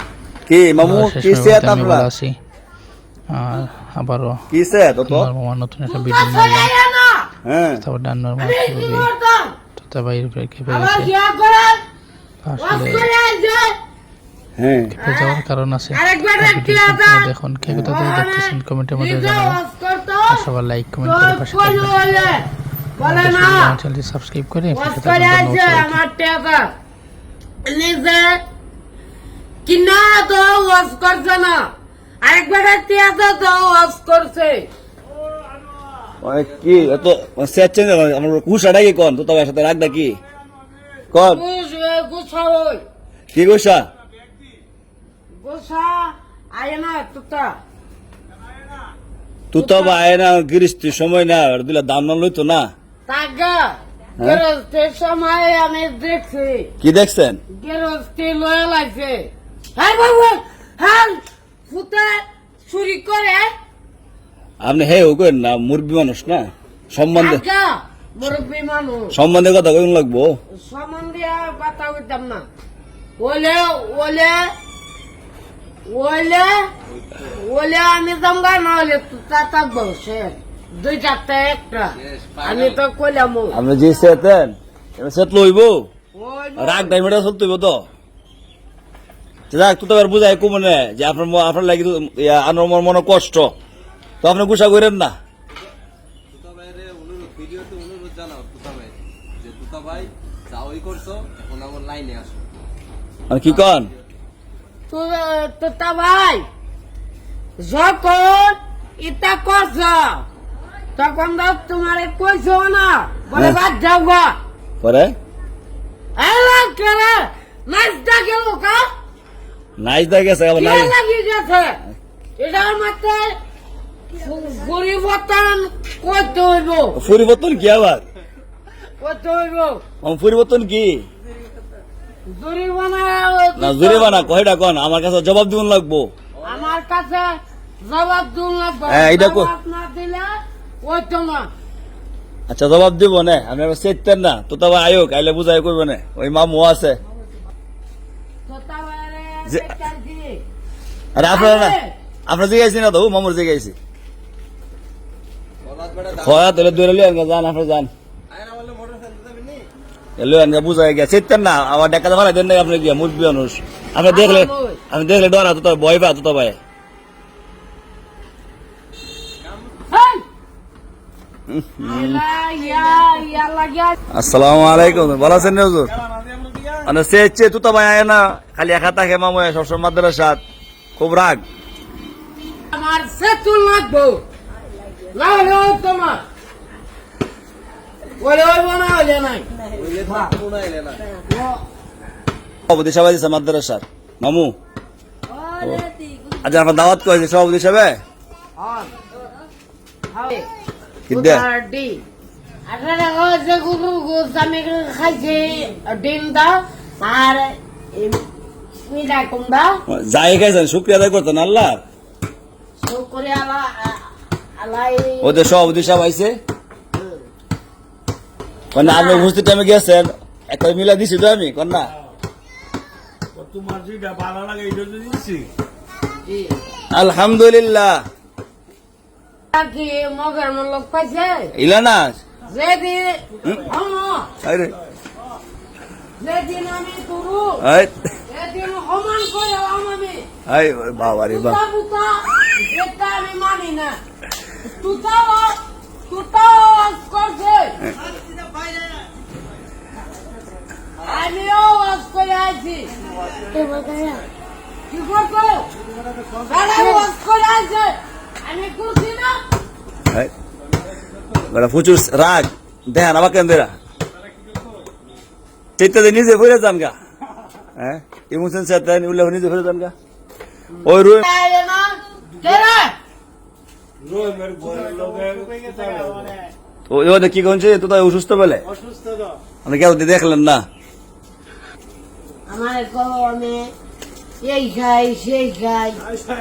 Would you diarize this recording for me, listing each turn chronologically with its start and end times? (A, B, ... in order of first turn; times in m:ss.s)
0:00.5-0:02.1 A
0:00.8-0:02.4 B
0:03.3-0:04.5 B
0:04.5-0:05.3 A
0:05.1-0:06.7 B
0:05.9-0:07.3 C
0:07.4-0:07.8 A
0:07.8-0:09.1 B
0:08.4-0:09.6 C
0:09.8-0:11.1 B
0:10.7-0:11.8 C
0:12.4-0:13.1 B
0:12.6-0:13.7 C
0:14.6-0:14.9 A
0:14.9-0:19.6 B
0:15.0-0:15.4 C
0:15.9-0:17.3 C
0:17.8-0:20.5 C
0:20.3-0:22.0 B
0:21.0-0:22.4 C
0:23.0-0:23.8 C
0:23.0-0:26.0 B
0:24.7-0:26.7 C
0:27.6-0:28.4 C
0:29.6-0:31.7 C
0:32.2-0:34.7 C
0:36.2-0:40.2 A
0:41.1-0:41.4 A
0:41.2-0:42.8 C
0:43.3-0:43.8 A
0:45.4-0:47.6 C
0:49.5-0:52.7 A
0:49.6-0:50.0 C
0:53.1-0:56.7 C
0:56.8-0:57.4 A
0:57.5-1:03.5 C
1:04.6-1:07.4 A
1:07.2-1:09.2 C
1:09.1-1:10.4 A
1:10.5-1:12.5 C
1:13.2-1:14.5 C
1:15.9-1:16.6 C
1:17.2-1:23.6 C
1:22.0-1:22.8 D
1:23.5-1:25.9 A
1:26.1-1:27.0 C
1:26.6-1:27.8 A
1:29.5-1:33.5 A
1:34.2-1:35.1 A
1:36.3-1:42.4 D
1:43.3-1:43.9 A
1:44.9-1:46.5 C
1:47.6-1:50.3 C
1:51.0-1:54.4 C
1:54.8-1:55.2 A
1:56.2-1:58.8 C
1:59.8-2:00.9 A
2:00.6-2:01.8 C
2:02.4-2:03.4 C
2:04.1-2:07.0 C
2:07.0-2:08.0 A
2:09.0-2:09.8 C
2:10.0-2:11.1 A
2:12.3-2:14.3 C
2:13.6-2:16.1 A
2:16.4-2:21.5 C
2:18.9-2:19.5 A
2:22.5-2:27.0 A
2:28.5-2:30.4 C
2:31.2-2:31.8 A
2:31.2-2:31.9 C
2:32.3-2:33.8 A
2:35.6-2:36.5 D
2:36.2-2:37.9 A
2:38.3-2:39.7 D
2:40.2-2:46.6 A
2:44.1-2:44.8 C
2:49.9-2:50.2 C
2:51.5-2:52.2 A
2:51.8-2:54.0 C
2:54.1-2:55.9 A
2:56.3-2:56.8 E
2:56.8-3:00.4 A
3:01.0-3:01.4 A
3:02.7-3:04.2 C
3:05.1-3:06.2 C
3:08.2-3:10.3 C
3:09.7-3:11.1 D
3:11.3-3:11.6 C
3:12.7-3:14.6 A
3:16.4-3:18.0 A
3:18.6-3:18.9 C
3:20.1-3:20.5 C
3:21.1-3:21.4 A
3:21.1-3:22.0 C
3:22.7-3:28.2 C
3:28.8-3:29.8 C
3:29.9-3:31.8 A
3:32.8-3:34.1 C
3:34.6-3:35.6 C
3:35.2-3:36.4 A
3:38.7-3:41.9 A
3:38.8-3:39.3 C
3:43.4-3:45.5 E
3:46.2-3:46.5 C
3:46.9-3:48.0 A
3:49.5-3:51.5 C
3:51.6-3:52.2 A
3:52.5-3:54.3 C
3:54.4-3:54.8 A
3:56.2-3:57.6 C
3:57.6-3:58.0 A
3:58.3-4:00.3 C
4:00.5-4:01.6 A
4:01.2-4:04.0 C
4:04.6-4:07.8 C
4:11.0-4:14.2 C
4:14.9-4:15.7 C
4:16.5-4:19.4 C
4:21.5-4:23.7 A
4:25.8-4:27.0 A
4:27.8-4:29.9 A
4:30.7-4:33.0 C
4:30.8-4:31.2 A
4:34.0-4:36.3 E
4:34.8-4:36.2 D
4:36.9-4:38.6 A
4:39.6-4:40.6 A
4:42.5-4:43.7 C
4:44.4-4:46.0 C